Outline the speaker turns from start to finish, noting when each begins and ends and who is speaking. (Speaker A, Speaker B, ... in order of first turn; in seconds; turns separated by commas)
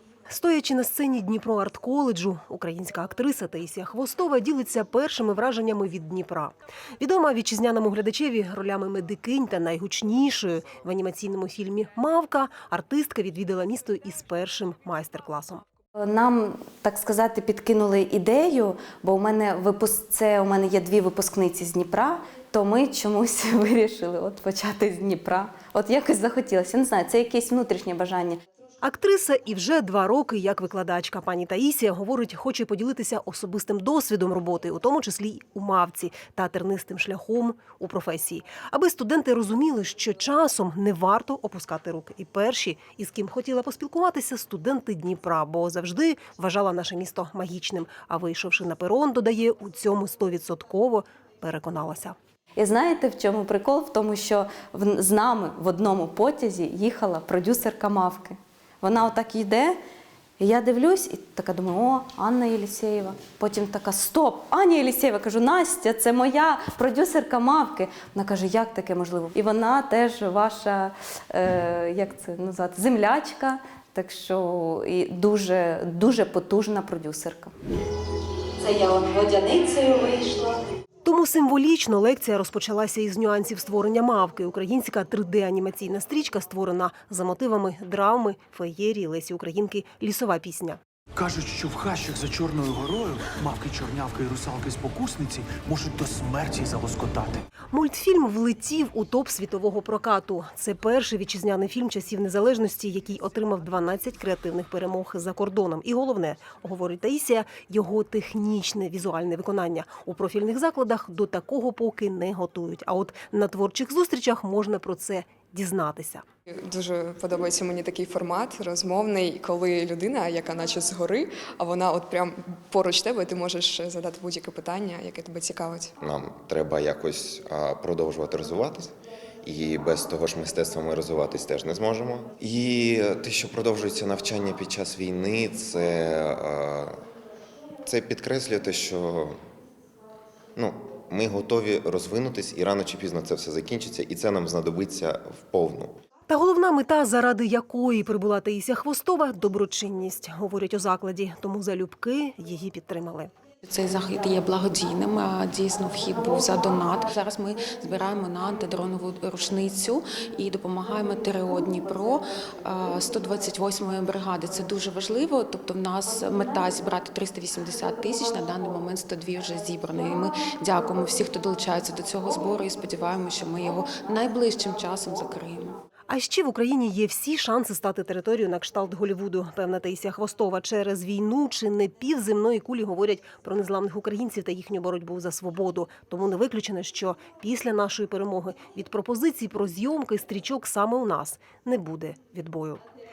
Speaker A: 0.3-15.6, Speaker B: 16.0-28.4, Speaker A: 28.8-52.1, Speaker B: 52.6-59.7, Speaker B: 60.4-77.5, Speaker C: 78.6-80.6, Speaker A: 81.0-90.8, Speaker D: 91.2-97.4, Speaker A: 97.7-116.2, Speaker E: 116.7-125.9, Speaker F: 126.0-137.0, Speaker F: 137.8-139.4, Speaker F: 140.5-146.0, Speaker A: 146.3-153.3, Speaker G: 153.6-175.8, Speaker A: 176.1-192.8